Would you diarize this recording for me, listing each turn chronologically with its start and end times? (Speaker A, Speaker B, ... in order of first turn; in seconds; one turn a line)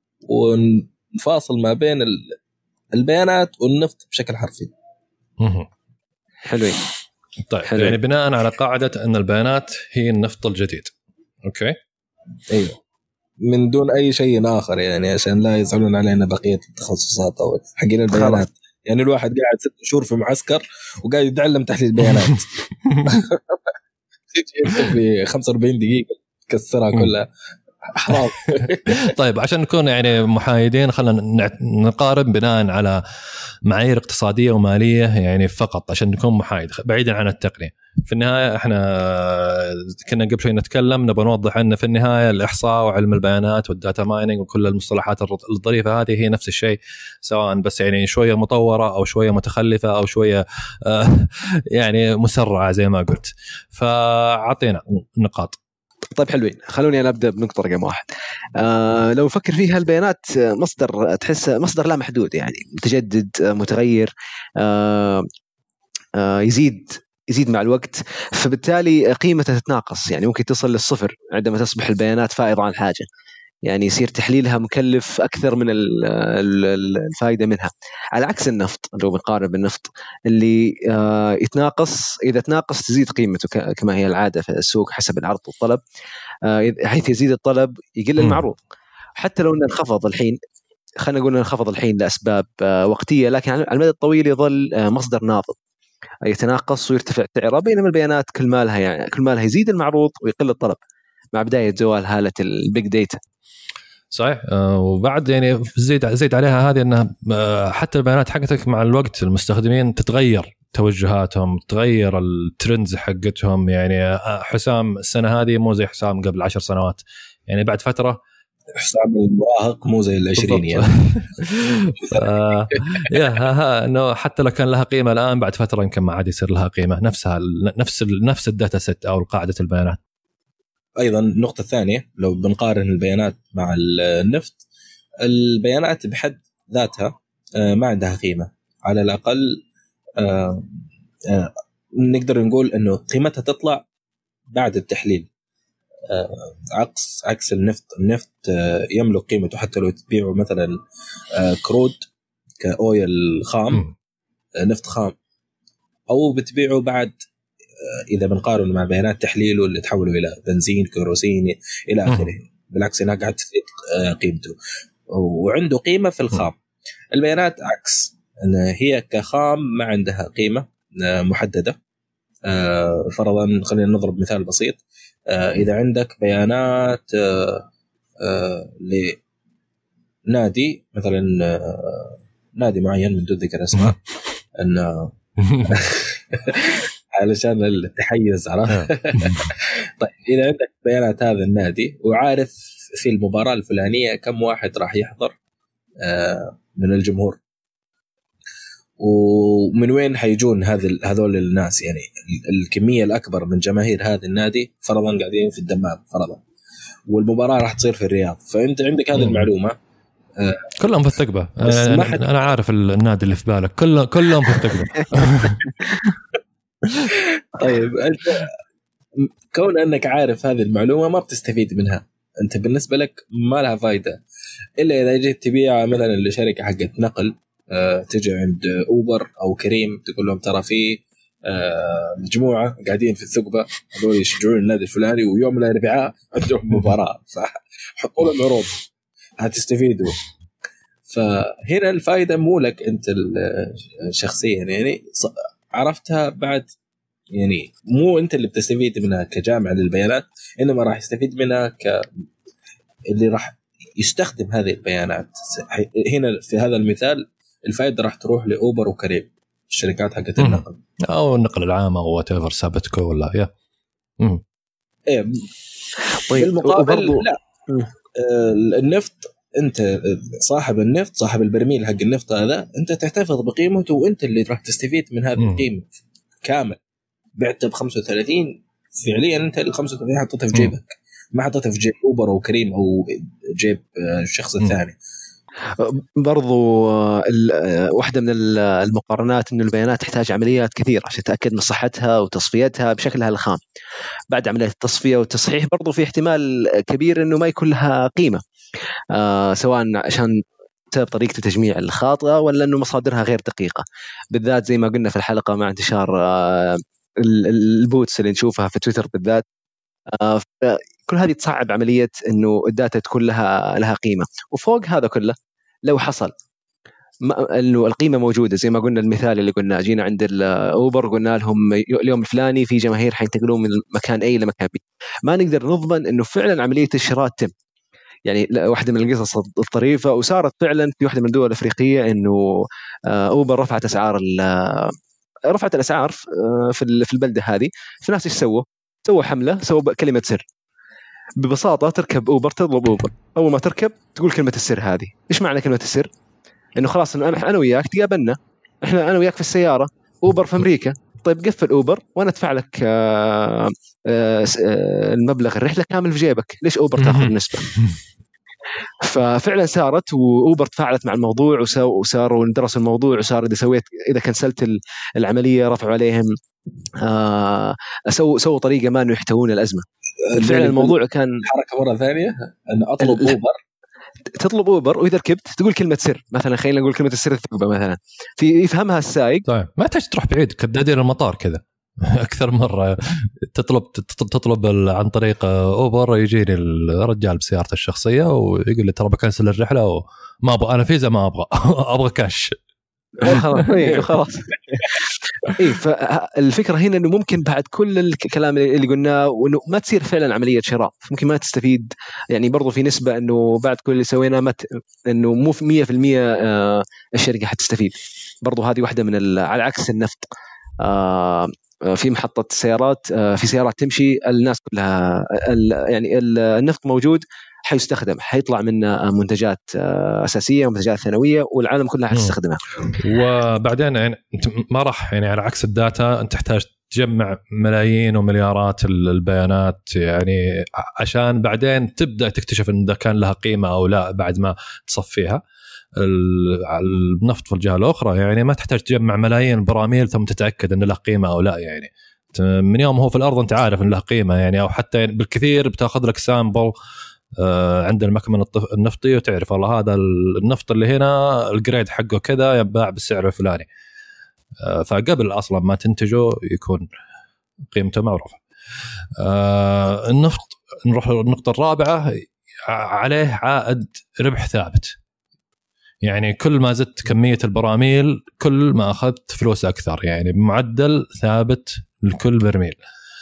Speaker A: 0.3-2.4
Speaker A: 3.0-4.7
Speaker B: 5.4-5.7
Speaker C: 6.5-6.8
Speaker B: 7.5-10.9
Speaker C: 7.7-8.0
Speaker B: 11.4-11.8
Speaker A: 12.5-12.8
Speaker A: 13.4-22.5
Speaker B: 22.9-23.2
Speaker A: 23.1-23.7
Speaker A: 24.3-27.3
Speaker A: 27.9-29.1
Speaker B: 29.0-33.0
Speaker B: 33.7-55.6
Speaker C: 56.1-58.0
Speaker C: 58.6-65.3
Speaker C: 66.2-73.1
Speaker C: 73.7-85.8
Speaker C: 86.5-88.6
Speaker C: 89.2-90.4
Speaker C: 91.0-95.6
Speaker C: 96.2-100.8
Speaker C: 101.3-103.2
Speaker B: 104.1-118.2
Speaker A: 118.7-120.9
Speaker B: 120.4-130.0
Speaker A: 122.0-123.2
Speaker A: 131.0-134.6
Speaker A: 135.2-139.6
Speaker A: 140.2-140.7
Speaker A: 141.3-143.8
Speaker A: 144.5-145.3
Speaker A: 146.1-150.8
Speaker A: 151.4-152.0
Speaker A: 152.6-153.9
Speaker A: 154.6-155.2
Speaker A: 156.1-157.2
Speaker A: 157.8-164.6
Speaker A: 165.1-166.6
Speaker A: 167.1-171.8
Speaker A: 172.5-177.7
Speaker A: 178.2-179.2
Speaker A: 180.3-184.0
Speaker A: 184.6-185.2
Speaker B: 185.4-185.8
Speaker A: 185.7-195.3
Speaker B: 188.7-189.5
Speaker A: 196.0-197.4
Speaker A: 199.0-206.4
Speaker A: 207.1-209.8
Speaker B: 209.2-209.5
Speaker A: 210.4-210.7
Speaker B: 210.8-215.6
Speaker A: 211.7-212.2
Speaker A: 217.1-218.5
Speaker A: 219.2-224.2
Speaker A: 224.8-238.8
Speaker A: 239.4-240.2
Speaker A: 241.1-246.7
Speaker A: 247.3-252.1
Speaker A: 253.1-260.8
Speaker B: 260.4-263.5
Speaker A: 265.1-265.5
Speaker C: 266.3-267.9
Speaker A: 266.3-267.4
Speaker A: 268.2-275.9
Speaker B: 275.4-275.6
Speaker A: 276.4-276.8
Speaker A: 277.4-285.0
Speaker C: 285.8-293.6
Speaker C: 294.3-298.4
Speaker C: 299.1-300.3
Speaker C: 300.9-309.4
Speaker C: 310.1-315.4
Speaker C: 315.9-316.3
Speaker C: 317.2-327.5
Speaker C: 328.3-332.4
Speaker C: 333.1-334.9
Speaker C: 335.5-340.4
Speaker C: 341.4-346.1
Speaker C: 346.8-357.7
Speaker B: 357.0-358.0
Speaker C: 359.0-366.3
Speaker C: 367.0-371.4
Speaker A: 370.2-373.6
Speaker C: 373.0-373.3
Speaker C: 374.4-379.4
Speaker B: 379.5-392.6
Speaker C: 393.2-410.3
Speaker C: 410.8-422.6
Speaker B: 423.0-435.4
Speaker B: 436.0-446.7
Speaker B: 447.4-453.7
Speaker B: 454.6-456.9
Speaker B: 457.7-458.4
Speaker B: 459.2-464.9
Speaker B: 466.1-472.8